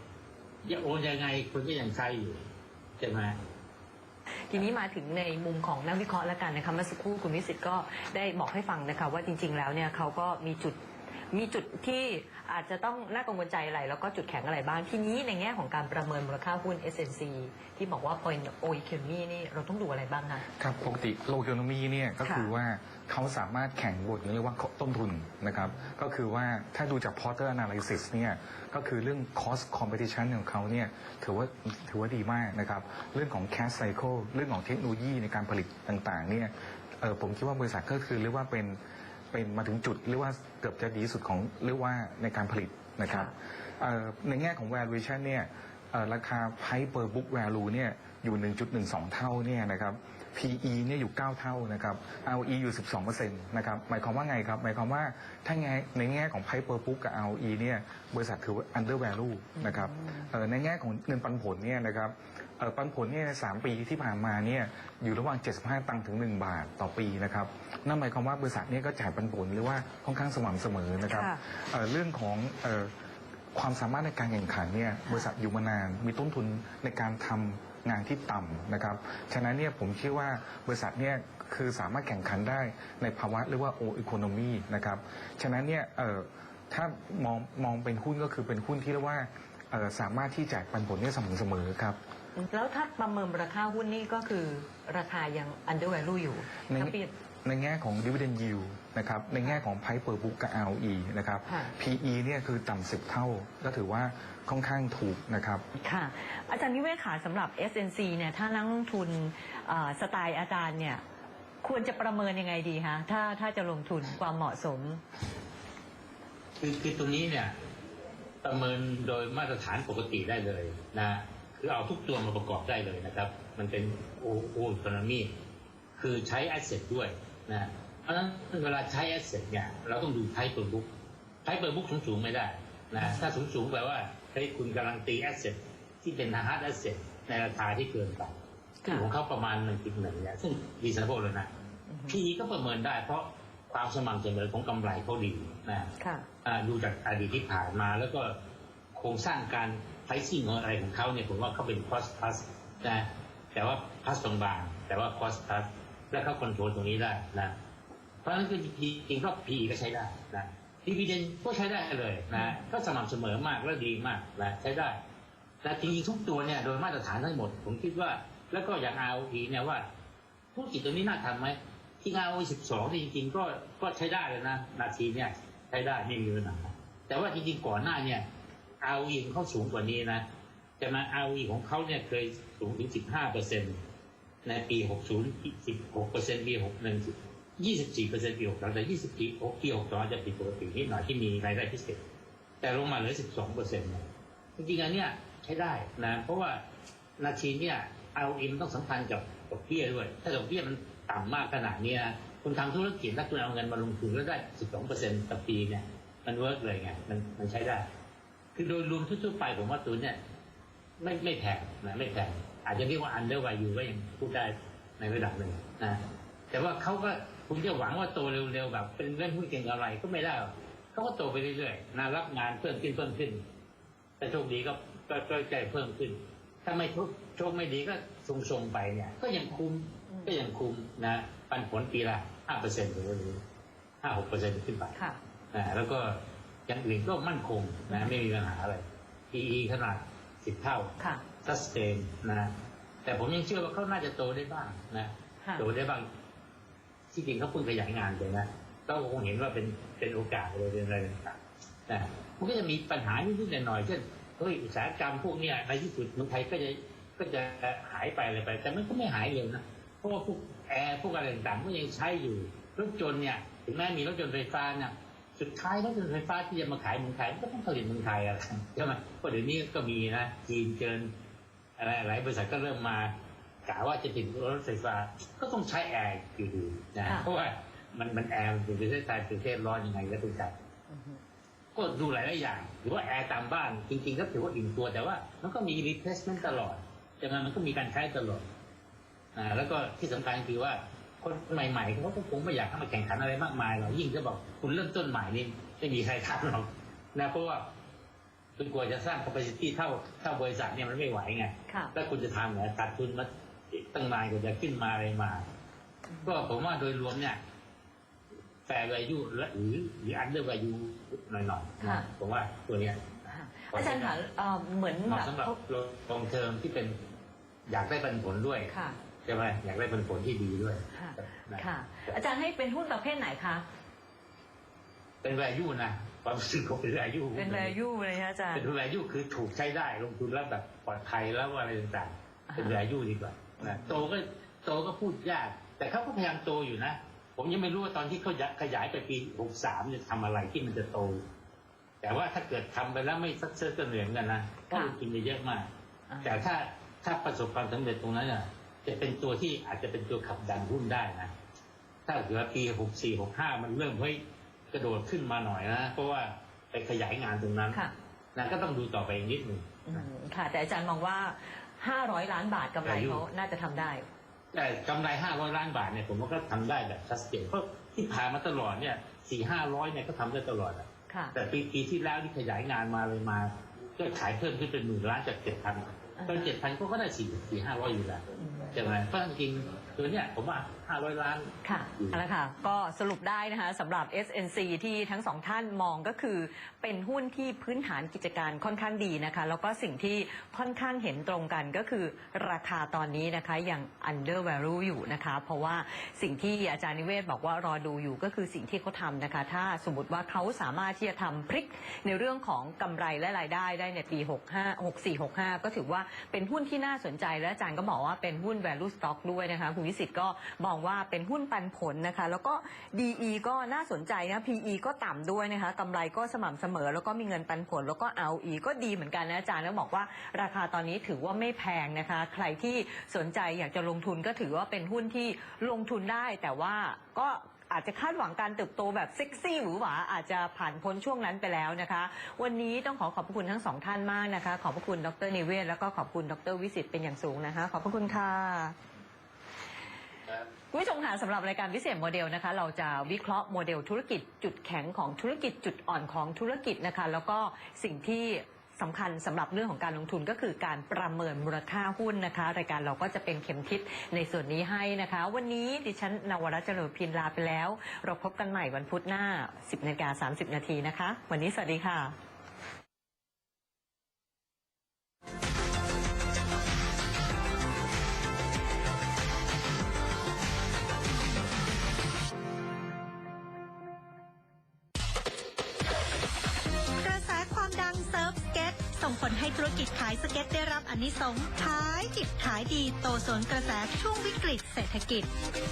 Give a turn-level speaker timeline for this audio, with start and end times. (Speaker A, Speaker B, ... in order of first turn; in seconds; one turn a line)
Speaker A: 0.6-2.4
Speaker A: 3.0-3.4
Speaker B: 4.5-10.8
Speaker B: 11.3-20.4
Speaker C: 20.6-38.8
Speaker B: 22.2-22.5
Speaker C: 39.3-72.9
Speaker B: 59.6-60.3
Speaker B: 71.1-71.4
Speaker C: 73.5-92.0
Speaker B: 92.4-97.1
Speaker C: 96.7-105.7
Speaker B: 101.5-101.8
Speaker B: 105.8-111.0
Speaker B: 111.6-115.0
Speaker A: 116.6-117.6
Speaker A: 118.4-125.3
Speaker A: 126.0-130.9
Speaker A: 131.4-138.3
Speaker A: 138.9-141.5
Speaker B: 141.9-142.2
Speaker A: 142.1-145.9
Speaker B: 146.0-146.3
Speaker A: 146.4-148.4
Speaker A: 148.9-157.6
Speaker A: 158.2-165.0
Speaker A: 165.6-169.9
Speaker A: 170.6-178.3
Speaker A: 178.8-180.2
Speaker A: 180.8-183.8
Speaker A: 184.4-192.0
Speaker A: 192.6-196.6
Speaker A: 197.2-207.9
Speaker A: 208.6-210.2
Speaker A: 211.0-223.4
Speaker A: 224.2-233.4
Speaker A: 234.0-234.9
Speaker A: 235.5-242.5
Speaker A: 243.0-246.1
Speaker A: 247.1-271.1
Speaker A: 271.8-280.5
Speaker B: 280.9-281.2
Speaker A: 281.8-288.4
Speaker A: 289.4-297.7
Speaker A: 298.6-305.5
Speaker B: 301.7-301.9
Speaker B: 306.1-306.4
Speaker A: 306.2-307.4
Speaker A: 308.7-313.0
Speaker B: 311.8-312.1
Speaker B: 313.3-315.6
Speaker A: 313.7-314.2
Speaker A: 315.1-317.0
Speaker A: 317.7-318.7
Speaker B: 318.7-319.0
Speaker A: 319.3-322.2
Speaker B: 320.9-323.6
Speaker A: 325.2-327.8
Speaker B: 327.4-328.7
Speaker A: 328.5-341.2
Speaker B: 332.5-332.8
Speaker B: 333.6-334.0
Speaker A: 342.0-345.7
Speaker B: 346.1-346.4
Speaker A: 346.2-351.3
Speaker A: 352.1-354.2
Speaker A: 354.7-357.8
Speaker A: 358.4-360.1
Speaker B: 359.9-364.1
Speaker A: 362.9-363.2
Speaker A: 364.5-382.2
Speaker B: 371.1-371.4
Speaker B: 376.2-376.5
Speaker B: 378.4-378.7
Speaker B: 381.6-438.8
Speaker B: 440.7-462.1
Speaker D: 477.0-485.3